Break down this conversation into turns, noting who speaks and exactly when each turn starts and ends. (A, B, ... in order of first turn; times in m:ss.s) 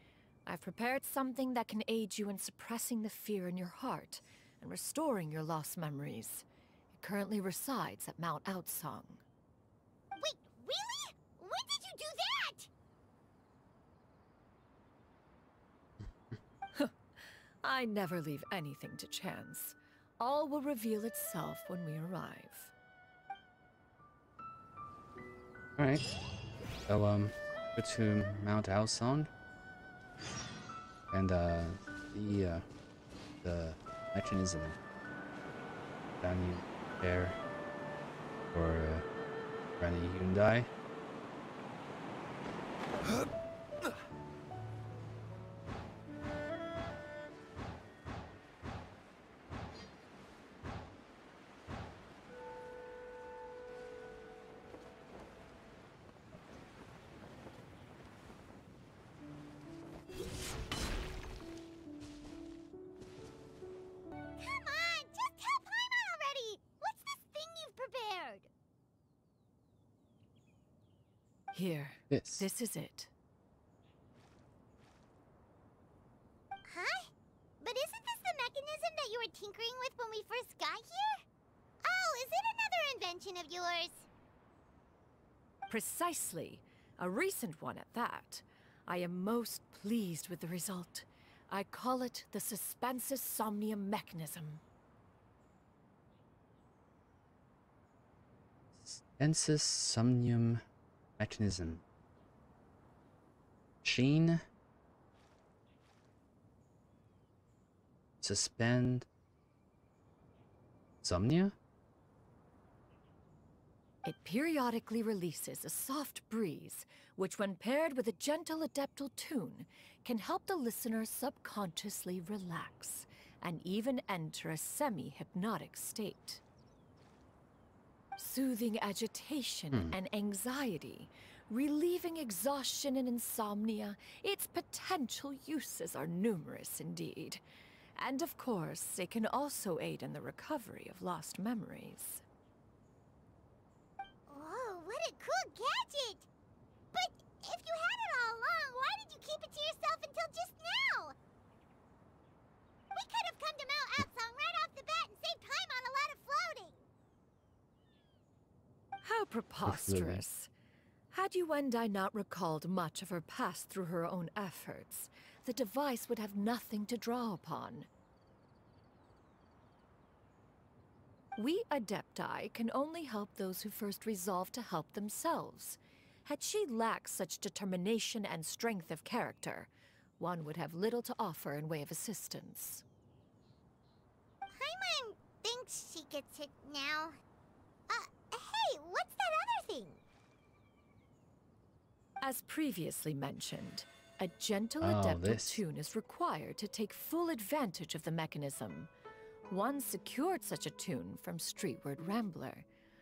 0:00.5-0:09.2 A
0:10.2-0:12.7 B
0:16.8-0:22.7 A
0:25.8-0:26.0 C
0:26.9-0:29.3 C
0:31.1-0:32.7 C
0:33.4-0:34.8 C
0:36.2-0:37.4 C
0:38.5-0:39.1 C
0:39.8-0:40.7 C
1:04.4-1:08.5 B
1:11.5-1:13.1 A
1:12.1-1:12.4 C
1:16.7-1:21.2 B
1:21.8-1:24.1 B
1:25.7-1:34.6 A
1:38.8-1:40.6 C
1:41.2-1:41.8 C
1:43.8-1:44.4 C
1:48.2-1:49.1 C
1:51.0-1:51.6 C
1:54.0-2:06.4 A
2:08.2-2:17.4 A
2:18.0-2:22.2 A
2:24.3-2:26.3 B
2:26.9-2:31.2 B
2:33.0-2:36.9 B
2:39.0-2:40.5 A
2:39.6-2:40.2 C
2:41.1-2:47.9 A
2:51.4-3:02.8 A
3:04.5-3:07.2 B
3:07.9-3:10.0 B
3:12.2-3:18.9 A
3:14.8-3:15.6 C
3:19.5-3:22.7 A